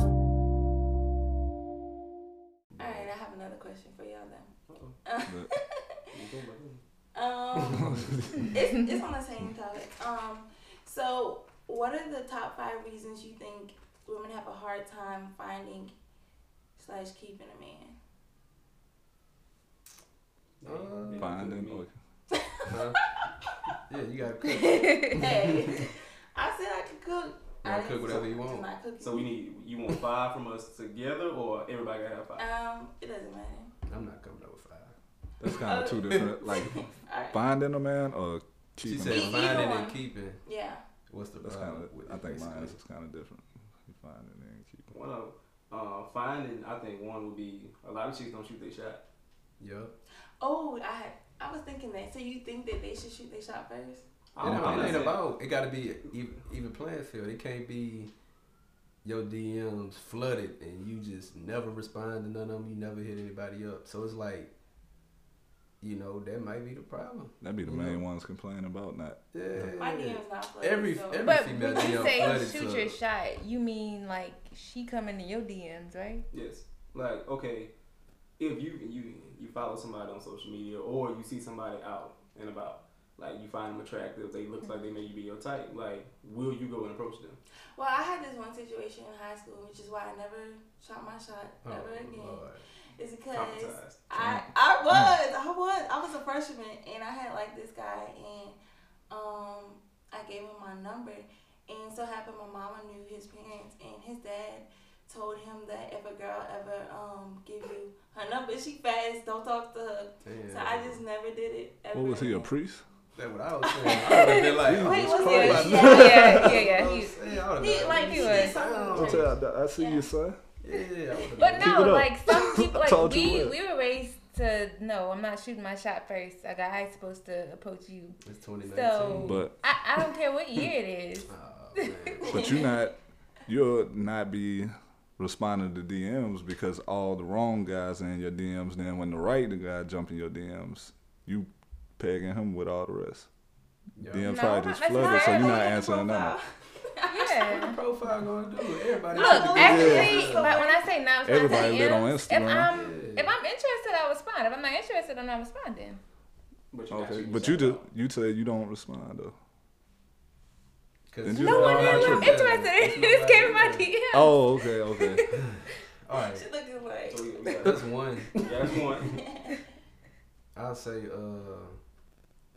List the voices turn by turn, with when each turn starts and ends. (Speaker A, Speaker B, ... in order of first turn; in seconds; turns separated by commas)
Speaker A: 2.8-5.8, Speaker B: 4.7-5.0, Speaker B: 6.1-6.8, Speaker A: 7.1-15.9, Speaker A: 16.8-17.9, Speaker B: 20.6-21.8, Speaker C: 20.6-21.3, Speaker D: 21.1-21.9, Speaker A: 22.3-23.5, Speaker C: 22.7-23.0, Speaker C: 23.9-25.8, Speaker E: 24.8-25.2, Speaker A: 25.0-29.3, Speaker C: 27.6-28.7, Speaker B: 29.0-32.5, Speaker A: 32.4-33.7, Speaker C: 33.9-34.9, Speaker D: 35.4-36.8, Speaker A: 35.5-37.4, Speaker D: 37.3-39.7, Speaker C: 38.8-40.4, Speaker A: 39.0-40.8, Speaker C: 41.1-42.8, Speaker D: 41.4-44.9, Speaker B: 44.9-49.0, Speaker C: 49.6-49.9, Speaker A: 50.4-54.0, Speaker B: 54.3-55.2, Speaker C: 54.4-58.1, Speaker D: 54.4-55.0, Speaker C: 59.0-64.5, Speaker C: 65.8-68.0, Speaker D: 67.4-69.7, Speaker C: 69.3-73.0, Speaker A: 69.7-72.4, Speaker E: 71.2-76.2, Speaker B: 76.3-77.7, Speaker B: 78.4-87.4, Speaker A: 87.8-98.6, Speaker C: 91.6-92.6, Speaker B: 93.3-94.0, Speaker A: 99.1-112.5, Speaker C: 110.2-111.0, Speaker D: 111.9-112.8, Speaker C: 113.1-119.3, Speaker A: 113.7-119.3, Speaker E: 114.1-114.3, Speaker D: 114.6-116.6, Speaker E: 115.0-117.1, Speaker E: 117.8-119.2, Speaker D: 119.0-120.4, Speaker E: 119.8-120.0, Speaker C: 120.6-121.9, Speaker E: 121.4-131.3, Speaker D: 121.4-123.5, Speaker C: 128.2-129.4, Speaker D: 129.2-129.5, Speaker C: 131.3-132.2, Speaker A: 132.2-132.7, Speaker D: 132.2-133.0, Speaker D: 133.5-143.3, Speaker C: 143.9-144.3, Speaker D: 144.1-146.3, Speaker E: 144.2-145.7, Speaker A: 144.9-147.5, Speaker E: 147.1-147.8, Speaker C: 147.5-150.5, Speaker A: 148.7-150.9, Speaker E: 149.1-156.0, Speaker D: 149.6-150.2, Speaker D: 151.2-152.7, Speaker C: 152.7-153.3, Speaker B: 156.7-157.9, Speaker D: 156.9-159.3, Speaker C: 161.1-163.9, Speaker D: 161.2-162.4, Speaker E: 161.3-165.7, Speaker D: 164.1-165.2, Speaker C: 165.5-166.4, Speaker A: 166.2-167.6, Speaker B: 167.1-169.2, Speaker C: 167.6-168.4, Speaker A: 169.0-169.6, Speaker C: 170.5-171.7